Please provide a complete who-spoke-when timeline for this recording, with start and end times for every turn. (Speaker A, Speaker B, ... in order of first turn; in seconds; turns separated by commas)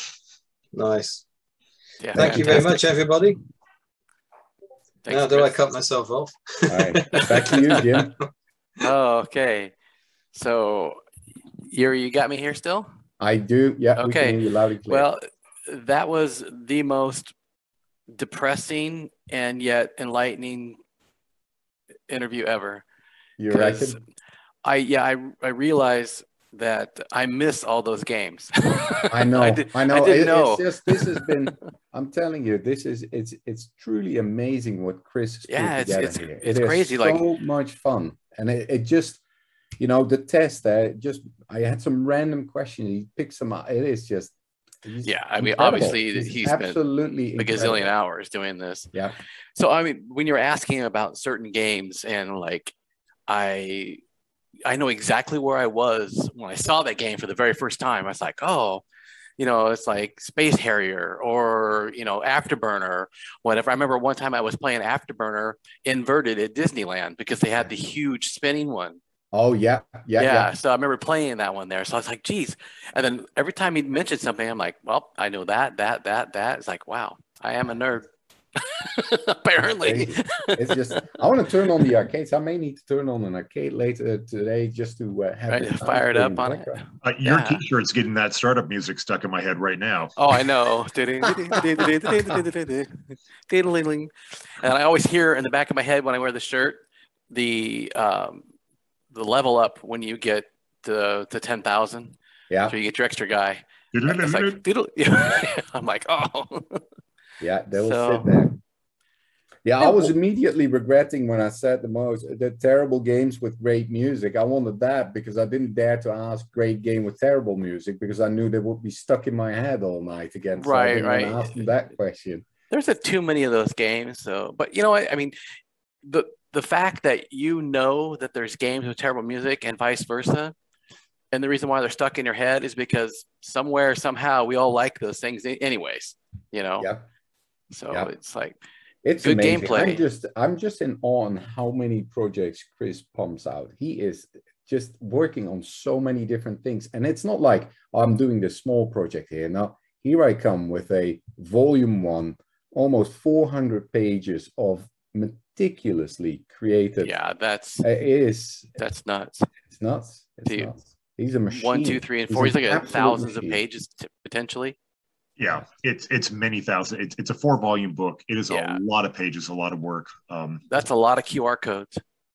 Speaker A: 0.7-1.2, Speaker B: 2.0-2.8, Speaker A: 2.1-3.4, Speaker C: 2.1-2.6, Speaker B: 5.0-5.5, Speaker A: 5.1-7.7, Speaker C: 6.7-8.2, Speaker B: 7.1-7.6, Speaker B: 8.8-9.7, Speaker B: 10.3-11.0, Speaker B: 11.6-12.9, Speaker C: 13.2-15.1, Speaker B: 14.0-17.3, Speaker B: 18.1-20.8, Speaker B: 22.1-22.8, Speaker C: 23.4-24.0, Speaker B: 23.5-24.0, Speaker B: 24.6-31.3, Speaker C: 29.1-39.2, Speaker B: 35.5-37.2, Speaker C: 39.8-47.9, Speaker B: 45.0-46.8, Speaker B: 47.4-48.9, Speaker B: 49.5-52.7, Speaker B: 53.3-54.0, Speaker B: 54.6-58.8, Speaker B: 59.4-69.0, Speaker C: 69.3-70.5, Speaker B: 70.2-81.0, Speaker C: 79.8-86.8, Speaker B: 85.5-87.6, Speaker D: 87.0-90.2, Speaker B: 90.2-98.4, Speaker B: 99.1-102.1, Speaker C: 102.5-102.8, Speaker B: 102.7-106.8, Speaker D: 103.9-104.6, Speaker C: 107.4-108.5, Speaker B: 107.8-108.5, Speaker C: 109.6-122.4, Speaker B: 109.8-110.1, Speaker B: 120.6-121.6, Speaker B: 122.7-125.3, Speaker B: 126.0-130.5, Speaker B: 131.3-136.9, Speaker C: 136.8-137.0, Speaker B: 137.7-138.6, Speaker C: 139.0-157.2, Speaker B: 139.2-140.0, Speaker B: 157.0-157.9, Speaker C: 157.8-158.7, Speaker B: 158.8-159.5, Speaker C: 159.7-163.6, Speaker B: 161.5-164.8, Speaker D: 165.4-170.6, Speaker B: 168.5-168.8, Speaker B: 170.7-172.0